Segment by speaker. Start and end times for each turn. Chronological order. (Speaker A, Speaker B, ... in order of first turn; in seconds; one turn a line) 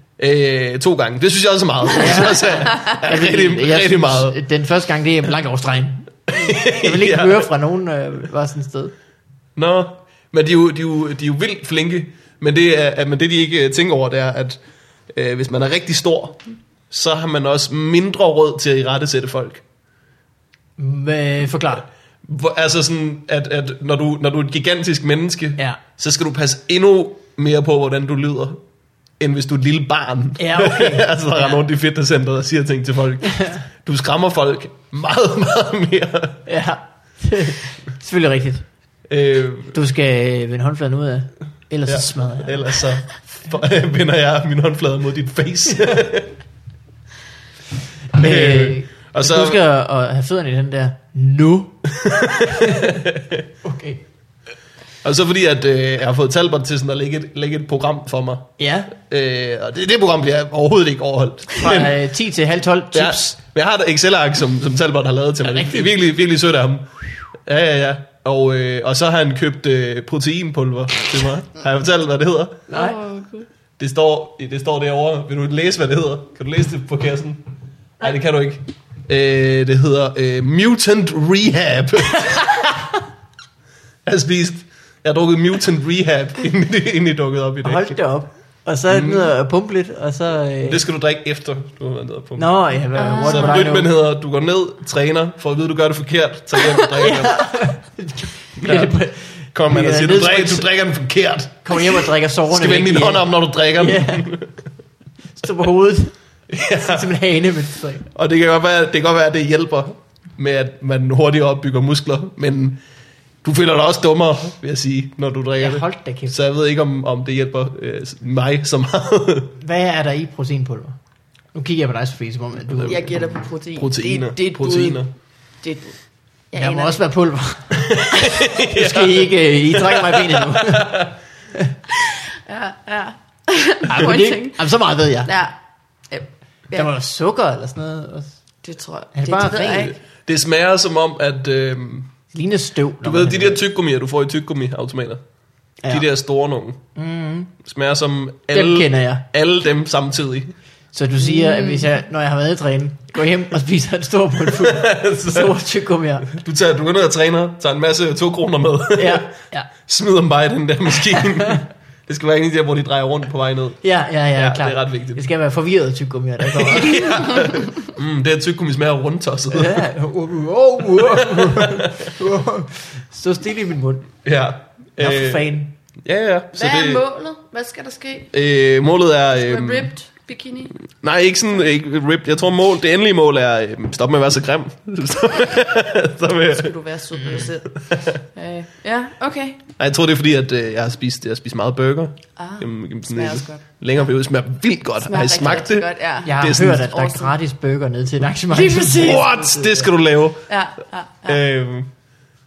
Speaker A: 0.2-4.4
Speaker B: 1.9-8.9
Speaker A: 6.3-7.5
Speaker A: 9.6-14.6
Speaker A: 15.1-16.4
Speaker A: 16.9-19.6
Speaker B: 20.8-21.8
Speaker A: 22.2-28.6
Speaker A: 29.2-36.4
Speaker B: 30.4-31.1
Speaker B: 36.5-38.7
Speaker A: 39.1-39.8
Speaker B: 39.7-42.8
Speaker A: 41.9-46.3
Speaker B: 48.1-53.0
Speaker A: 48.2-49.6
Speaker A: 51.9-53.4
Speaker B: 53.6-54.0
Speaker A: 55.0-62.0
Speaker B: 58.6-58.9
Speaker B: 61.6-63.4
Speaker A: 62.9-66.9
Speaker B: 65.4-65.9
Speaker A: 67.4-72.6
Speaker B: 72.7-73.0
Speaker C: 72.7-73.5
Speaker A: 73.8-77.4
Speaker A: 78.0-82.8
Speaker A: 84.0-88.0
Speaker B: 87.6-90.8
Speaker A: 88.9-89.3
Speaker A: 90.7-97.7
Speaker B: 92.4-93.9
Speaker C: 93.0-93.7
Speaker C: 96.6-97.0
Speaker B: 97.0-100.7
Speaker A: 98.6-98.9
Speaker A: 99.5-104.5
Speaker B: 101.6-104.3
Speaker B: 105.3-108.0
Speaker A: 106.5-107.1
Speaker A: 108.1-112.8
Speaker A: 113.4-119.5
Speaker B: 115.6-116.3
Speaker B: 119.6-121.0
Speaker B: 121.5-123.2
Speaker A: 122.7-123.0
Speaker C: 122.8-125.0
Speaker A: 123.8-125.1
Speaker C: 125.6-126.0
Speaker C: 126.5-127.0
Speaker B: 126.5-131.7
Speaker A: 127.7-131.1
Speaker C: 131.9-134.6
Speaker B: 133.9-135.3
Speaker C: 135.2-135.5
Speaker C: 136.1-136.9
Speaker B: 136.7-138.3
Speaker C: 138.6-140.0
Speaker B: 139.1-139.9
Speaker A: 140.2-142.2
Speaker B: 142.3-143.6
Speaker A: 143.0-145.2
Speaker A: 145.9-146.8
Speaker B: 146.9-147.5
Speaker A: 147.6-150.5
Speaker B: 148.5-149.2
Speaker B: 150.9-156.3
Speaker C: 151.2-151.9
Speaker A: 154.5-155.6
Speaker A: 156.2-159.3
Speaker B: 158.9-159.7
Speaker A: 159.8-165.2
Speaker B: 161.1-161.6
Speaker B: 163.8-167.6
Speaker A: 166.4-169.9
Speaker B: 169.5-174.1
Speaker A: 170.9-172.1
Speaker A: 174.2-175.5
Speaker B: 175.0-175.7
Speaker A: 176.0-177.0
Speaker C: 176.5-178.3
Speaker A: 178.3-179.9
Speaker C: 179.3-180.8
Speaker A: 180.9-186.7
Speaker C: 186.5-187.8
Speaker B: 187.2-187.5
Speaker A: 187.7-188.2
Speaker C: 188.3-189.6
Speaker A: 189.8-196.9
Speaker C: 192.4-193.6
Speaker C: 195.0-197.3
Speaker B: 196.2-199.9
Speaker C: 198.5-199.4
Speaker A: 198.9-200.4
Speaker C: 200.5-201.4
Speaker A: 201.3-201.9